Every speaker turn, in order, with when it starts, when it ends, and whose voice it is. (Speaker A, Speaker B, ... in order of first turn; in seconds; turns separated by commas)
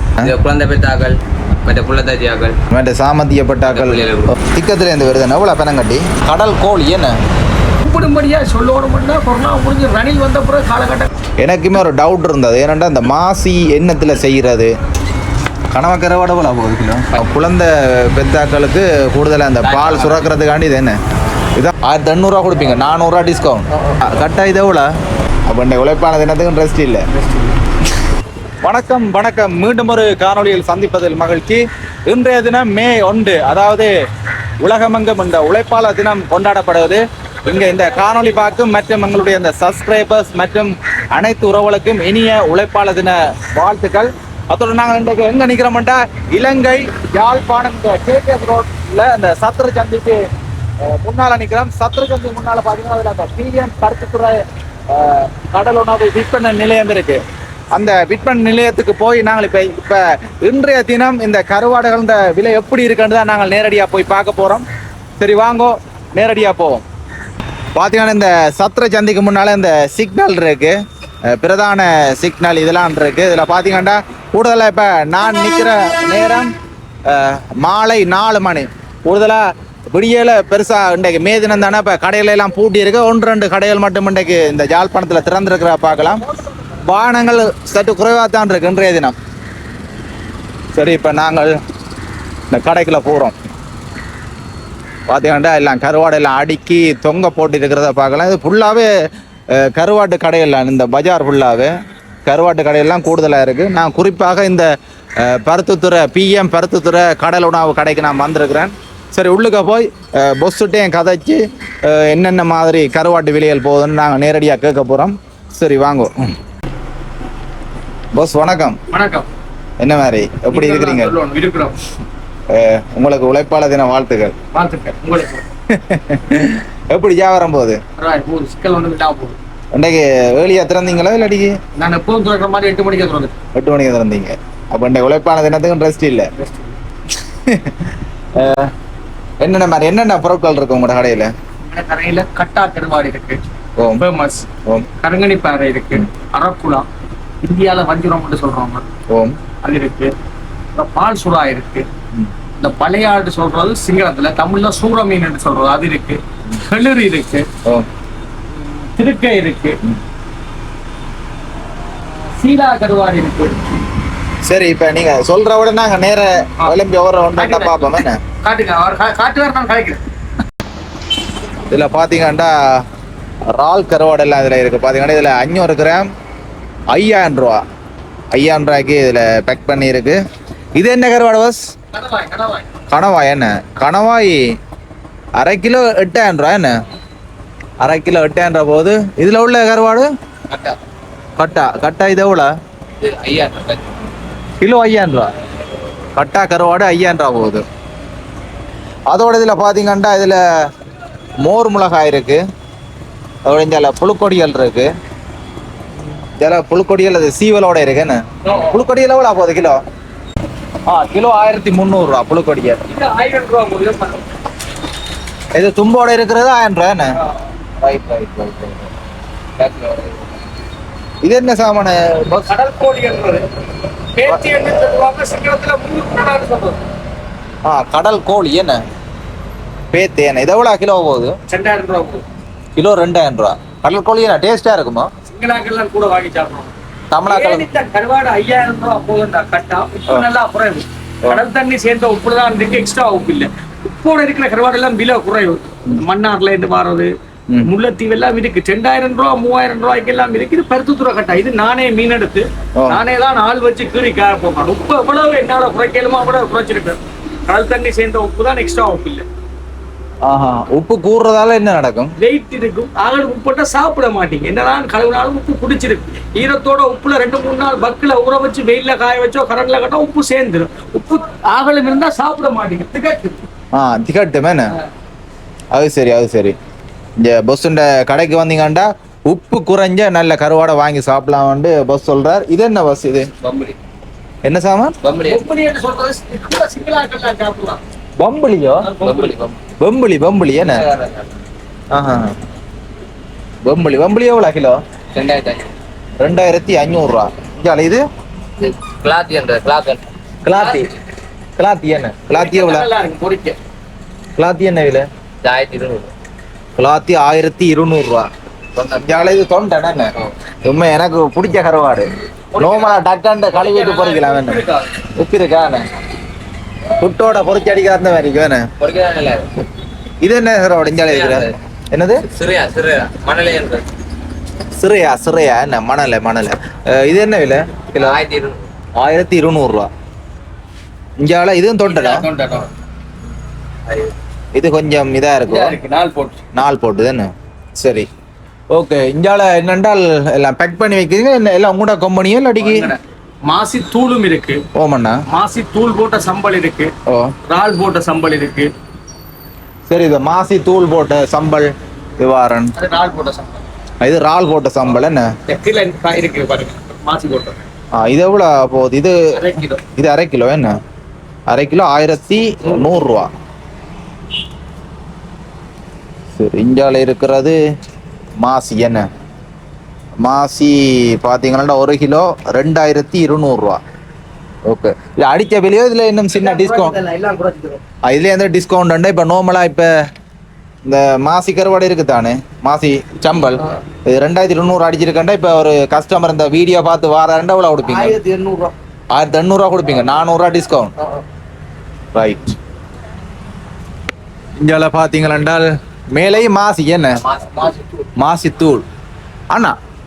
Speaker A: 0.2-2.6, Speaker B: 2.7-7.2, Speaker A: 3.7-4.3, Speaker C: 7.8-11.1, Speaker B: 11.4-14.7, Speaker B: 15.7-21.0, Speaker A: 19.6-20.3, Speaker B: 21.5-24.9, Speaker B: 25.5-27.1, Speaker C: 27.2-27.4, Speaker B: 28.6-33.9, Speaker B: 34.6-50.2, Speaker B: 50.8-57.2, Speaker B: 57.7-64.6, Speaker B: 65.2-66.8, Speaker B: 67.8-70.8, Speaker B: 71.3-76.5, Speaker B: 77.0-86.2, Speaker B: 86.9-89.1, Speaker B: 90.7-91.6, Speaker B: 92.5-93.3, Speaker B: 95.1-98.9, Speaker B: 99.5-101.7, Speaker B: 102.2-116.3, Speaker B: 118.1-118.8, Speaker C: 118.9-119.3, Speaker B: 119.8-121.1, Speaker C: 120.5-121.8, Speaker B: 122.5-124.3, Speaker C: 124.5-125.4, Speaker B: 125.7-127.8, Speaker C: 128.0-129.4, Speaker B: 129.7-131.5, Speaker C: 131.8-133.3, Speaker B: 133.5-136.3, Speaker C: 136.3-136.8, Speaker B: 137.4-138.7, Speaker B: 139.4-141.3, Speaker C: 141.7-143.4, Speaker B: 143.8-144.1, Speaker C: 144.0-146.9, Speaker C: 147.4-148.8, Speaker B: 149.1-149.3, Speaker C: 149.6-150.1, Speaker C: 150.7-151.8, Speaker C: 152.6-157.5, Speaker C: 158.6-159.8, Speaker C: 162.4-163.6, Speaker B: 164.5-168.2, Speaker C: 167.4-170.0, Speaker B: 171.7-172.8, Speaker B: 173.5-176.1, Speaker B: 176.9-177.6, Speaker B: 178.3-180.2, Speaker B: 180.8-181.6, Speaker C: 181.9-182.7, Speaker B: 182.9-184.4, Speaker B: 185.4-186.7, Speaker B: 187.8-190.1, Speaker A: 190.5-190.8, Speaker B: 191.4-192.5, Speaker A: 193.0-194.1, Speaker B: 194.6-195.3, Speaker B: 196.2-197.6, Speaker B: 199.1-200.4, Speaker B: 201.4-202.4, Speaker B: 203.4-204.9, Speaker B: 206.4-209.8, Speaker B: 210.9-212.8, Speaker C: 212.9-214.3, Speaker B: 215.6-217.2, Speaker B: 217.8-218.9, Speaker A: 219.6-220.3, Speaker B: 221.2-222.5, Speaker C: 222.3-223.5, Speaker C: 224.1-226.8, Speaker B: 224.3-224.5, Speaker B: 227.6-228.8, Speaker B: 229.9-231.3, Speaker C: 231.5-232.2, Speaker B: 232.8-235.1, Speaker C: 235.3-236.7, Speaker B: 237.1-237.7, Speaker C: 237.2-247.1, Speaker C: 247.6-259.2, Speaker B: 260.2-262.1, Speaker C: 262.2-273.4, Speaker B: 273.7-274.7, Speaker B: 275.7-276.6, Speaker B: 277.2-283.3, Speaker A: 283.4-283.8, Speaker B: 284.4-284.9, Speaker A: 285.0-285.4, Speaker C: 285.2-287.8, Speaker B: 288.2-288.9, Speaker C: 288.8-289.4, Speaker A: 289.0-289.6, Speaker B: 289.8-290.9, Speaker A: 290.6-291.3, Speaker B: 291.9-292.4, Speaker B: 293.6-294.8, Speaker A: 295.1-295.7, Speaker B: 296.2-298.0, Speaker A: 298.6-300.0, Speaker B: 300.4-300.9, Speaker C: 300.6-300.8, Speaker B: 301.6-302.9, Speaker C: 302.3-303.6, Speaker B: 304.4-305.1, Speaker A: 305.4-306.1, Speaker B: 306.8-308.3, Speaker A: 308.8-309.3, Speaker B: 309.0-310.1, Speaker B: 310.6-314.6, Speaker C: 312.5-314.9, Speaker B: 315.1-315.9, Speaker B: 317.0-318.7, Speaker A: 318.8-319.5, Speaker B: 320.2-322.2, Speaker A: 320.9-321.5, Speaker A: 322.2-323.9, Speaker B: 324.8-328.2, Speaker A: 327.9-328.6, Speaker B: 329.0-329.9, Speaker B: 331.2-332.2, Speaker C: 331.9-332.7, Speaker B: 334.6-335.8, Speaker C: 335.4-336.4, Speaker B: 336.5-338.1, Speaker B: 338.7-342.9, Speaker C: 342.6-344.6, Speaker B: 344.7-345.2, Speaker C: 345.3-346.9, Speaker B: 347.1-347.3, Speaker C: 347.5-348.7, Speaker B: 349.9-352.7, Speaker C: 352.7-353.6, Speaker B: 354.0-355.3, Speaker C: 355.5-357.6, Speaker B: 357.9-359.4, Speaker C: 359.3-359.8, Speaker B: 360.0-360.8, Speaker B: 361.5-363.3, Speaker B: 366.4-367.6, Speaker B: 368.4-369.1, Speaker B: 370.2-373.8, Speaker B: 374.7-377.0, Speaker C: 376.3-377.8, Speaker B: 378.1-379.9, Speaker B: 380.9-388.2, Speaker C: 387.9-388.7, Speaker B: 389.1-390.9, Speaker B: 392.1-392.6, Speaker B: 394.6-397.2, Speaker C: 397.2-397.9, Speaker B: 398.2-398.8